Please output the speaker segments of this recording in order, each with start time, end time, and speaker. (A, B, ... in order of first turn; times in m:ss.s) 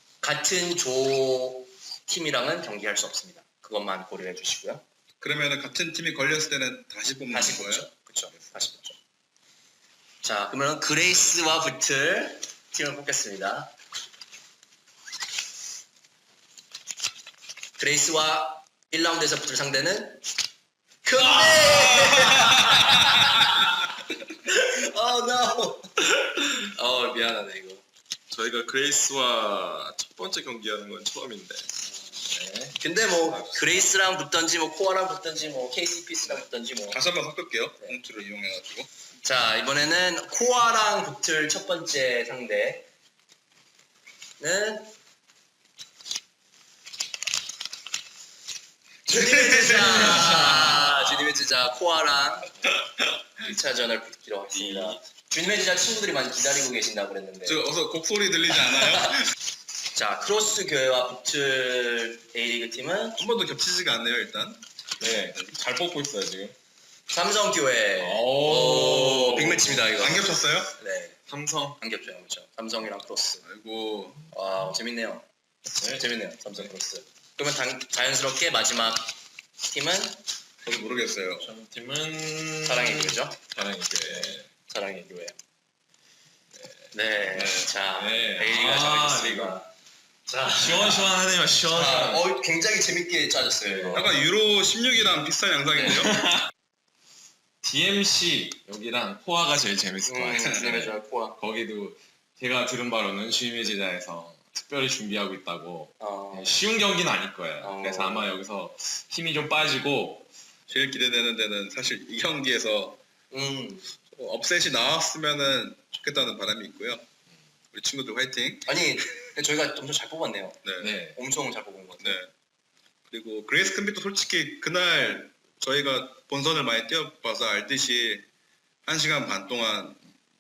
0:00.2-0:04.8 A
0:05.2-0:07.9 B
0:07.3-0:09.0 A
0:10.2-0:13.7 A
0:17.8-0:20.2 A
0:21.0-0:27.8 A
0:28.3-0:31.7 C
0:32.3-0:33.8 C
0:32.8-0:37.0 A
0:36.9-0:38.9 B
0:39.2-0:42.9 A
0:44.4-0:44.9 A
0:49.1-0:52.7 A
0:49.1-0:50.6 B
0:50.1-0:51.3 C
0:53.4-0:57.6 A
0:54.5-0:55.0 C
0:57.4-0:59.2 B
0:58.5-0:59.2 A
0:59.9-1:03.2 A
1:03.2-1:05.5 B
1:05.0-1:06.6 C
1:07.1-1:11.2 A
1:08.0-1:09.9 C
1:10.0-1:10.7 B
1:11.3-1:11.8 C
1:11.8-1:13.4 A
1:13.4-1:14.3 B
1:14.3-1:15.2 A
1:15.8-1:16.0 C
1:15.8-1:20.2 A
1:20.6-1:21.5 B
1:21.4-1:24.5 C
1:22.6-1:23.4 A
1:24.7-1:25.4 A
1:26.6-1:29.6 C
1:26.9-1:29.7 A
1:30.3-1:31.2 A
1:30.5-1:32.2 C
1:31.7-1:34.2 A
1:33.7-1:34.1 C
1:33.9-1:36.2 B
1:35.8-1:36.0 A
1:36.1-1:36.5 C
1:37.6-1:50.3 C
1:40.0-1:41.4 A
1:46.0-1:46.6 A
1:47.6-1:48.3 A
1:50.7-1:53.0 B
1:53.3-1:53.9 A
1:54.0-1:57.0 B
1:57.7-1:58.7 B
1:58.7-2:02.2 A
2:00.6-2:00.9 B
2:00.8-2:01.2 C
2:02.0-2:02.3 B
2:03.1-2:08.3 B
2:08.9-2:10.0 B